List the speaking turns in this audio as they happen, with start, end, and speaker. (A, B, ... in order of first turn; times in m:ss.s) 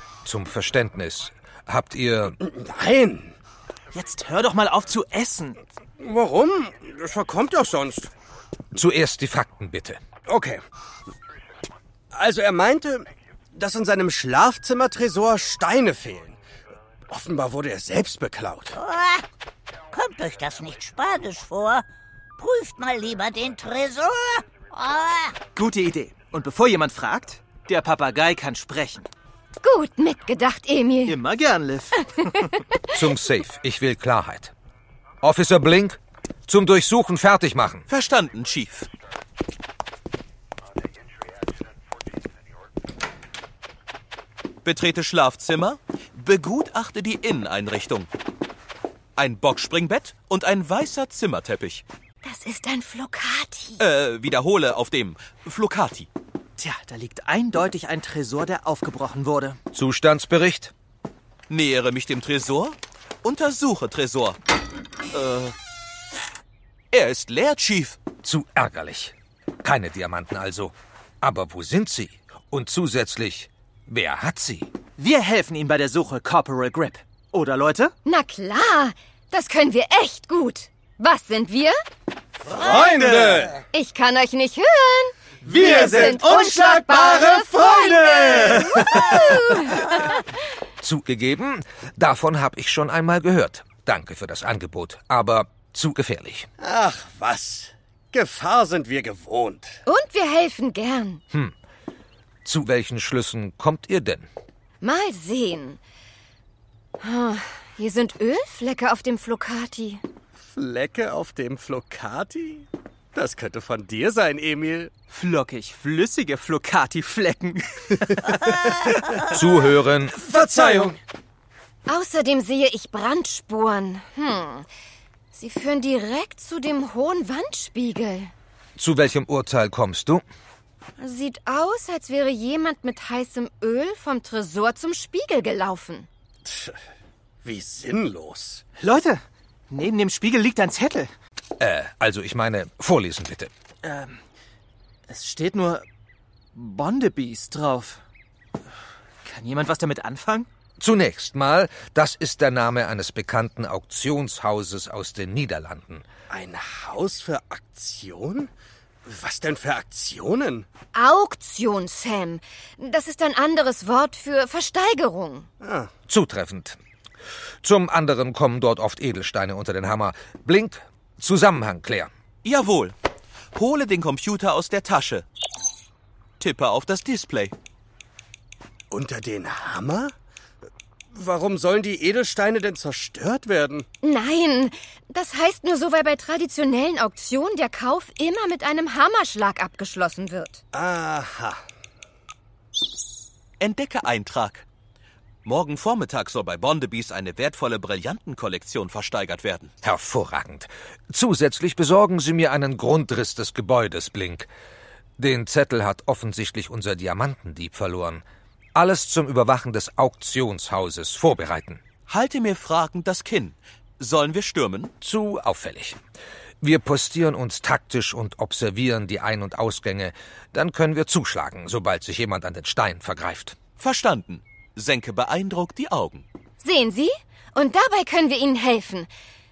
0:00.2-0:02.4 A
0:02.4-0:03.3 B
0:03.9-0:05.6 C
0:06.0-0:08.1 B
0:08.7-0:10.0 A
0:10.2-0:10.6 B
0:12.1-0:16.4 B
0:17.1-0:18.8 B
0:18.7-0:19.2 D
0:19.9-0:21.8 D
0:22.4-0:25.4 D
0:25.5-0:29.1 C
0:29.6-0:31.2 E
0:31.0-0:32.5 C
0:32.9-0:34.5 A
0:35.2-0:37.8 A
0:37.9-0:38.9 F
0:44.6-0:48.1 F
0:49.2-0:51.8 F
0:52.2-0:53.8 E
0:53.8-0:56.1 F
0:56.6-0:59.6 C
0:59.7-1:00.7 A
1:01.5-1:04.4 F
1:05.1-1:05.5 F
1:06.9-1:08.0 F
1:08.2-1:14.7 A
1:15.0-1:17.9 C
1:18.0-1:21.8 E
1:22.5-1:23.6 B
1:23.7-1:30.2 E
1:25.5-1:29.6 B
1:25.5-1:27.3 C
1:30.8-1:36.5 A
1:36.6-1:39.8 B
1:39.8-1:41.2 E
1:42.4-1:44.3 A
1:44.8-1:45.8 E
1:47.0-1:50.0 E
1:50.5-1:54.9 B
1:55.1-1:58.3 C
1:58.2-1:59.5 B
1:59.3-2:00.2 A
2:00.2-2:01.0 B
2:00.3-2:00.9 C
2:01.9-2:04.7 E
2:05.3-2:08.3 E
2:08.8-2:10.2 A
2:11.0-2:16.1 E
2:16.4-2:16.8 B
2:17.4-2:18.6 B
2:18.8-2:21.1 C
2:21.6-2:23.5 A
2:23.8-2:24.2 C
2:25.1-2:25.8 C
2:26.5-2:28.0 C
2:29.2-2:30.5 C
2:30.8-2:36.0 A
2:36.3-2:38.5 B
2:39.1-2:40.7 B
2:40.9-2:45.5 E
2:45.6-2:45.9 B
2:46.1-2:46.8 A
2:47.6-2:52.1 A
2:52.4-2:52.9 F
2:53.5-2:55.2 F
2:56.4-2:57.5 F
2:58.9-3:00.1 B
3:01.1-3:03.9 B
3:04.0-3:10.6 E
3:10.7-3:11.6 B
3:13.6-3:14.6 F
3:15.4-3:19.7 F
3:19.8-3:24.5 A
3:25.2-3:31.8 A
3:32.1-3:34.9 F
3:35.0-3:36.0 A
3:36.6-3:43.6 A
3:43.8-3:46.2 F
3:46.6-3:49.1 E